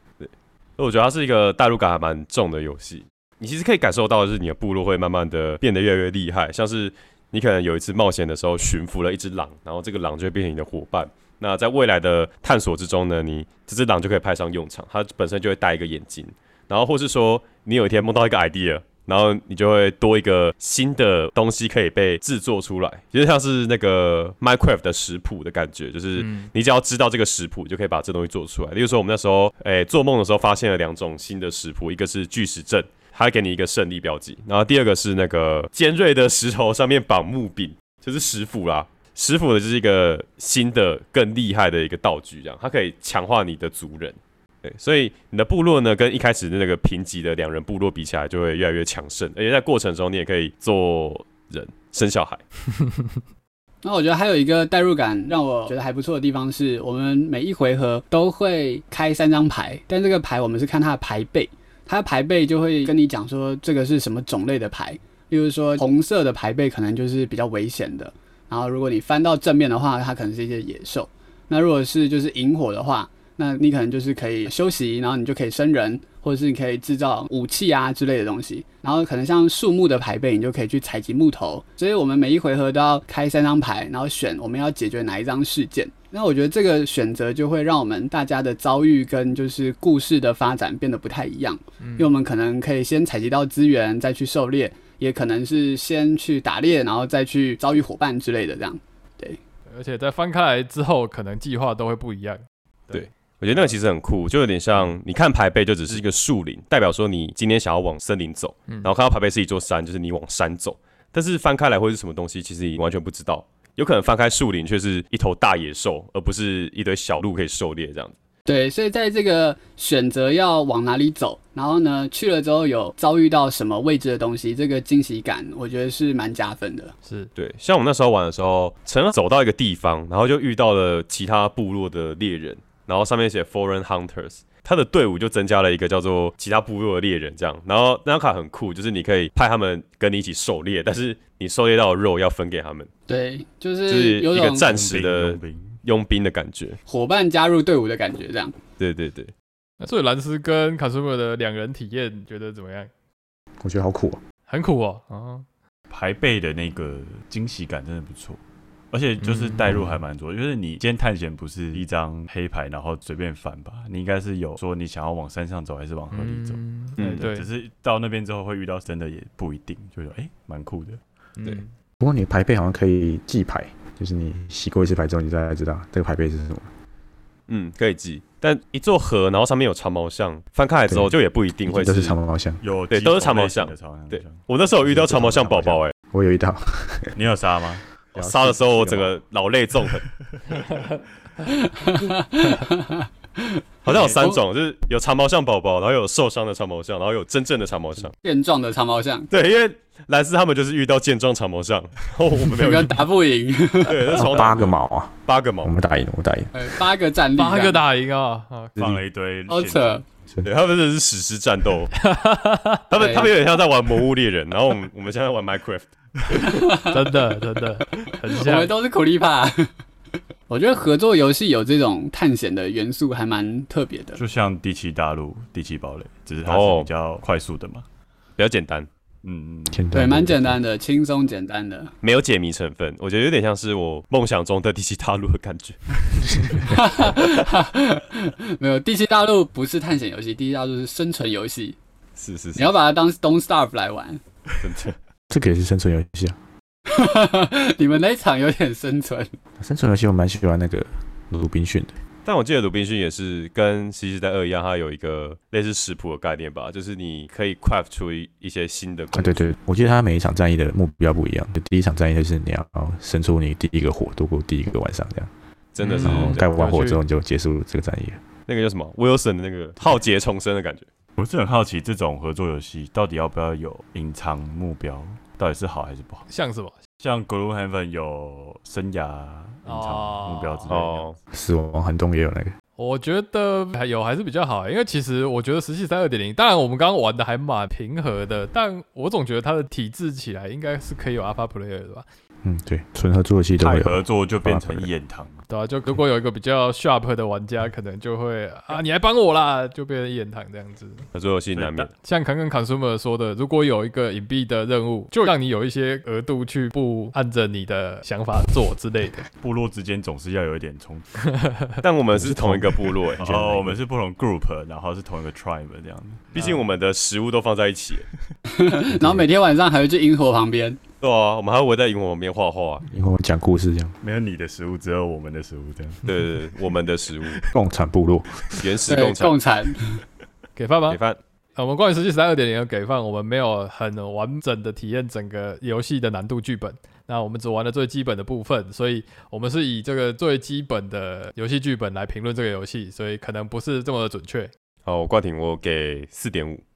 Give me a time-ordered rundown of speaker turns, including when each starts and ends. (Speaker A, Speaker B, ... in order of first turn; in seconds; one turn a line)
Speaker A: 0.2-52.4
Speaker B: 26.2-26.5
Speaker C: 53.8-99.4
Speaker B: 91.8-92.1
Speaker B: 99.7-103.1
Speaker A: 102.9-118.2
Speaker C: 118.5-126.9
Speaker B: 127.0-127.3
Speaker A: 127.4-142.9
Speaker C: 143.1-144.7
Speaker A: 143.9-146.8
Speaker D: 144.7-145.8
Speaker C: 146.9-148.6
Speaker A: 148.8-149.3
Speaker B: 149.8-152.9
Speaker E: 153.6-154.2
Speaker B: 154.5-155.5
Speaker D: 155.9-171.0
Speaker B: 159.2-159.8
Speaker B: 166.1-167.5
Speaker A: 167.0-167.3
Speaker B: 171.4-171.7
Speaker E: 172.0-176.7
Speaker A: 177.5-182.2
Speaker E: 180.9-181.1
Speaker E: 181.7-182.6
Speaker D: 182.6-184.5
Speaker A: 182.9-185.9
Speaker E: 184.9-187.2
Speaker D: 187.2-187.8
Speaker E: 188.2-189.2
Speaker A: 188.2-190.1
Speaker C: 191.7-194.4
Speaker A: 193.8-198.1
Speaker C: 198.2-199.3
Speaker A: 199.3-203.0
Speaker C: 202.5-204.2
Speaker A: 203.9-204.8
Speaker E: 204.1-206.7
Speaker A: 205.3-205.8
Speaker C: 206.5-207.8
Speaker B: 207.4-208.8
Speaker E: 208.8-209.0
Speaker D: 208.8-209.9
Speaker C: 209.5-210.0
Speaker A: 210.4-211.9
Speaker B: 212.0-212.8
Speaker A: 212.9-215.9
Speaker C: 212.9-213.3
Speaker C: 216.4-217.0
Speaker B: 216.8-218.7
Speaker C: 218.3-219.7
Speaker C: 220.5-224.2
Speaker D: 224.2-227.8
Speaker A: 226.4-226.9
Speaker A: 228.4-228.9
Speaker D: 229.2-229.8
Speaker E: 229.7-230.6
Speaker C: 229.9-231.9
Speaker A: 232.0-237.1
Speaker E: 236.4-236.7
Speaker C: 236.7-241.8
Speaker A: 242.2-242.7
Speaker C: 242.6-244.2
Speaker A: 244.6-244.9
Speaker E: 245.3-246.4
Speaker C: 246.9-249.3
Speaker E: 249.6-251.9
Speaker A: 252.3-259.5
Speaker E: 259.1-265.3
Speaker A: 265.8-266.4
Speaker B: 265.8-267.0
Speaker E: 266.0-268.2
Speaker A: 268.5-270.9
Speaker D: 271.2-276.3
Speaker B: 276.3-276.8
Speaker D: 277.0-281.1
Speaker B: 279.6-280.9
Speaker A: 280.7-281.2
Speaker E: 281.3-282.5
Speaker B: 282.8-292.1
Speaker E: 292.4-294.9
Speaker D: 293.6-295.4
Speaker B: 295.5-301.1
Speaker A: 301.1-301.9
Speaker D: 301.5-301.9
Speaker B: 302.0-309.3
Speaker D: 309.4-311.1
Speaker B: 311.3-311.8
Speaker A: 311.8-313.6
Speaker D: 313.2-316.5
Speaker A: 316.3-318.1
Speaker C: 318.5-320.8
Speaker E: 318.9-319.3
Speaker A: 321.0-322.9
Speaker E: 322.9-323.9
Speaker D: 324.0-326.1
Speaker A: 326.1-327.4
Speaker E: 327.5-328.7
Speaker A: 328.5-329.4
Speaker C: 328.9-330.0
Speaker B: 330.6-331.0
Speaker A: 330.9-331.2
Speaker B: 331.6-344.5
Speaker A: 344.9-346.6